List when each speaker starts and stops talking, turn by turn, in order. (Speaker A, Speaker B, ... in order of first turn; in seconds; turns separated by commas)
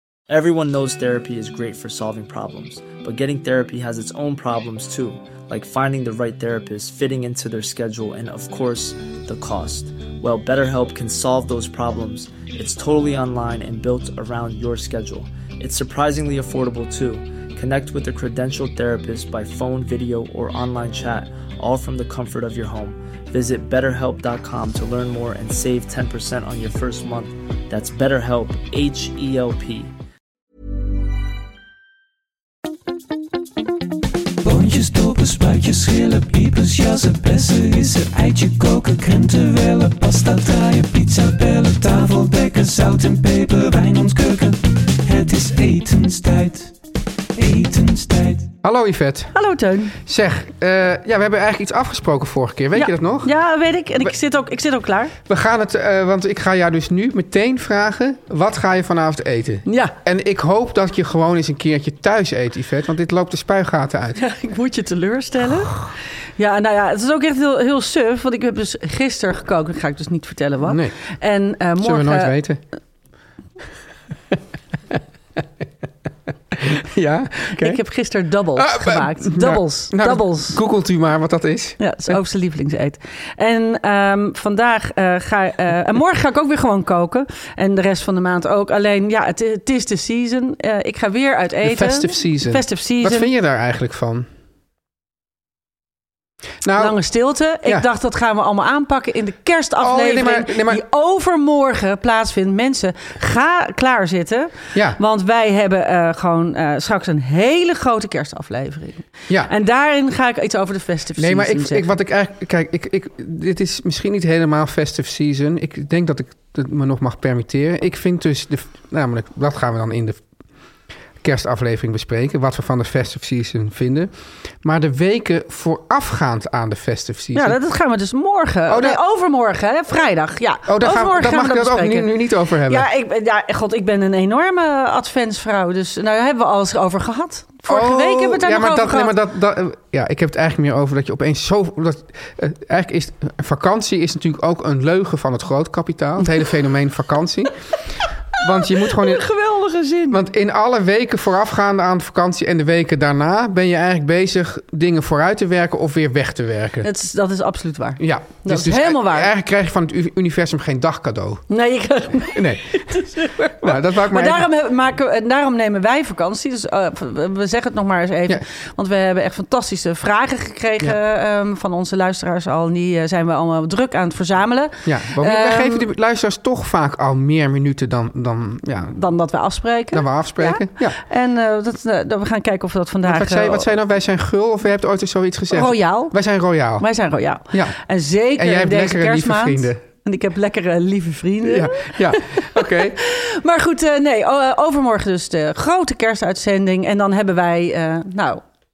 Speaker A: 0.3-29.9, Speaker B: 34.4-46.7, Speaker B: 47.4-48.5, Speaker C: 48.6-49.3, Speaker D: 49.3-50.0, Speaker C: 50.0-53.3, Speaker D: 52.7-55.1, Speaker C: 55.2-64.2, Speaker D: 59.6-59.9, Speaker D: 64.2-65.8, Speaker D: 66.4-72.3, Speaker C: 70.6-70.9, Speaker C: 71.8-72.6, Speaker C: 74.9-75.4, Speaker C: 76.5-77.8, Speaker D: 77.5-80.6, Speaker C: 78.5-82.1, Speaker D: 81.8-93.3, Speaker C: 91.6-94.3, Speaker C: 96.6-97.0, Speaker D: 96.8-111.9, Speaker C: 99.8-100.8, Speaker C: 104.7-105.0, Speaker C: 111.2-120.2, Speaker C: 121.2-124.1, Speaker C: 124.6-127.6, Speaker D: 127.3-132.1, Speaker C: 128.7-129.0, Speaker C: 130.7-132.9, Speaker D: 132.7-139.2, Speaker C: 137.7-147.5, Speaker C: 148.4-149.2, Speaker D: 148.4-150.2, Speaker C: 150.1-156.9, Speaker D: 156.8-159.3, Speaker C: 158.0-161.4, Speaker D: 161.5-175.9, Speaker C: 162.2-164.5, Speaker C: 174.8-179.0, Speaker D: 178.9-183.7, Speaker C: 179.9-181.0, Speaker C: 183.0-186.8, Speaker D: 185.5-186.2, Speaker D: 186.8-198.4, Speaker C: 187.5-187.8, Speaker C: 188.4-189.8, Speaker C: 191.4-193.0